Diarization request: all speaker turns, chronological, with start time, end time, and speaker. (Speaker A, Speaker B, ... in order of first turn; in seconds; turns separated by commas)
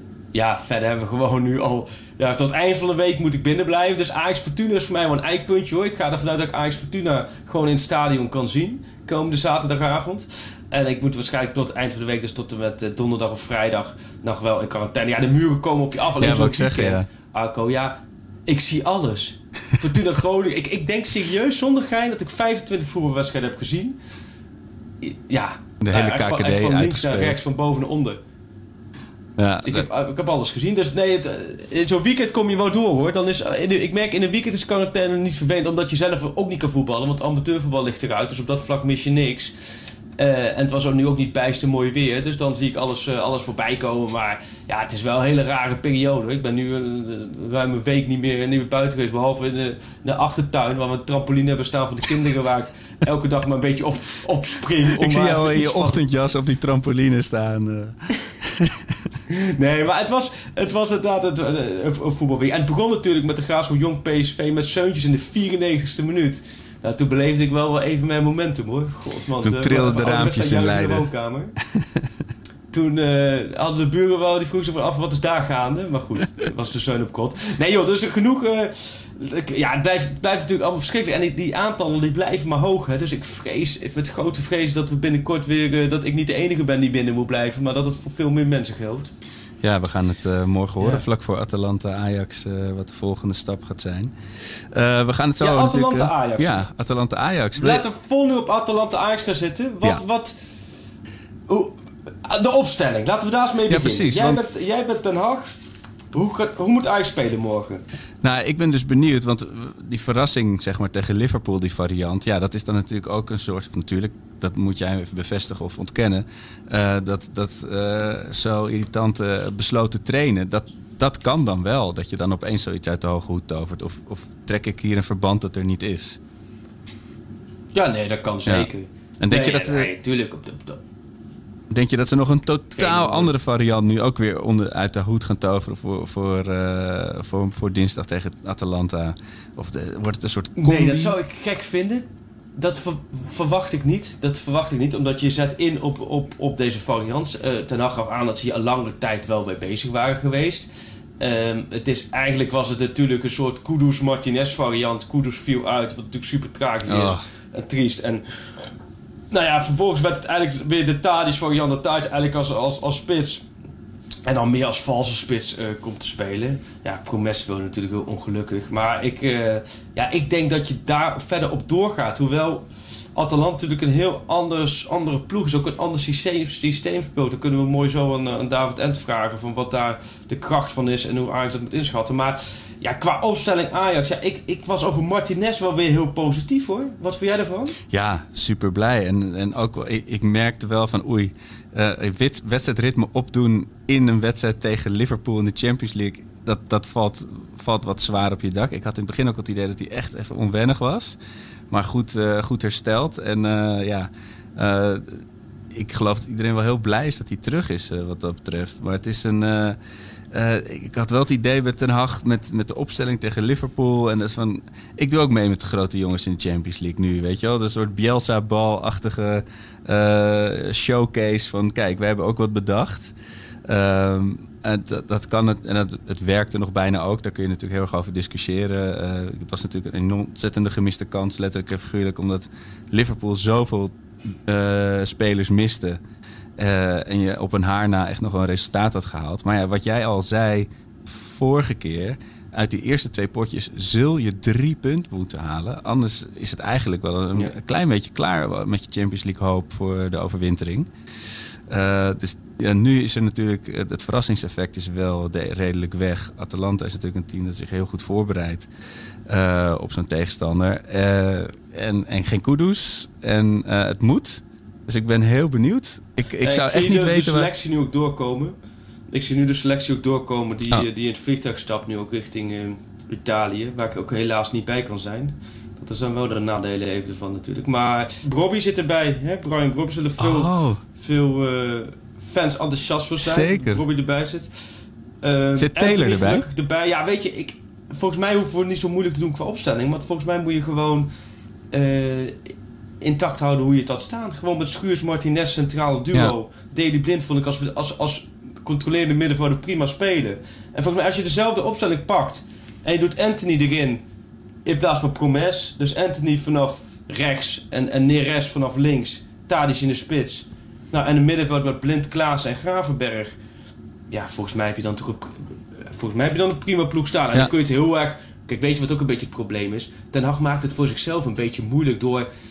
Speaker A: 0.3-24.0, Speaker B: 16.2-17.1, Speaker A: 25.0-28.2, Speaker B: 25.8-27.4, Speaker B: 29.4-29.9, Speaker A: 29.6-39.6, Speaker A: 40.2-56.0, Speaker B: 55.0-59.1, Speaker A: 59.3-71.5, Speaker B: 69.4-71.1, Speaker B: 71.8-72.1, Speaker A: 72.7-89.1, Speaker B: 89.6-97.8, Speaker A: 95.4-96.7, Speaker A: 97.6-100.3, Speaker A: 101.5-105.5, Speaker B: 103.7-104.5, Speaker A: 106.1-107.8, Speaker B: 108.2-126.2, Speaker A: 127.7-130.8, Speaker B: 129.2-129.9, Speaker B: 131.7-141.2, Speaker A: 132.8-133.3, Speaker A: 140.6-150.7, Speaker A: 151.2-158.7, Speaker B: 156.9-157.2, Speaker A: 159.3-163.4, Speaker A: 164.3-187.8, Speaker B: 187.9-201.2, Speaker B: 201.7-209.8, Speaker B: 210.3-223.1, Speaker B: 223.7-236.0, Speaker B: 236.6-250.9, Speaker B: 251.7-258.7, Speaker B: 259.3-267.5, Speaker A: 266.4-268.6, Speaker A: 269.1-284.5, Speaker B: 280.2-280.8, Speaker B: 283.2-283.8, Speaker A: 285.2-291.1, Speaker B: 285.6-286.5, Speaker A: 291.7-292.4, Speaker A: 293.0-304.0, Speaker A: 304.6-313.4, Speaker A: 314.1-322.3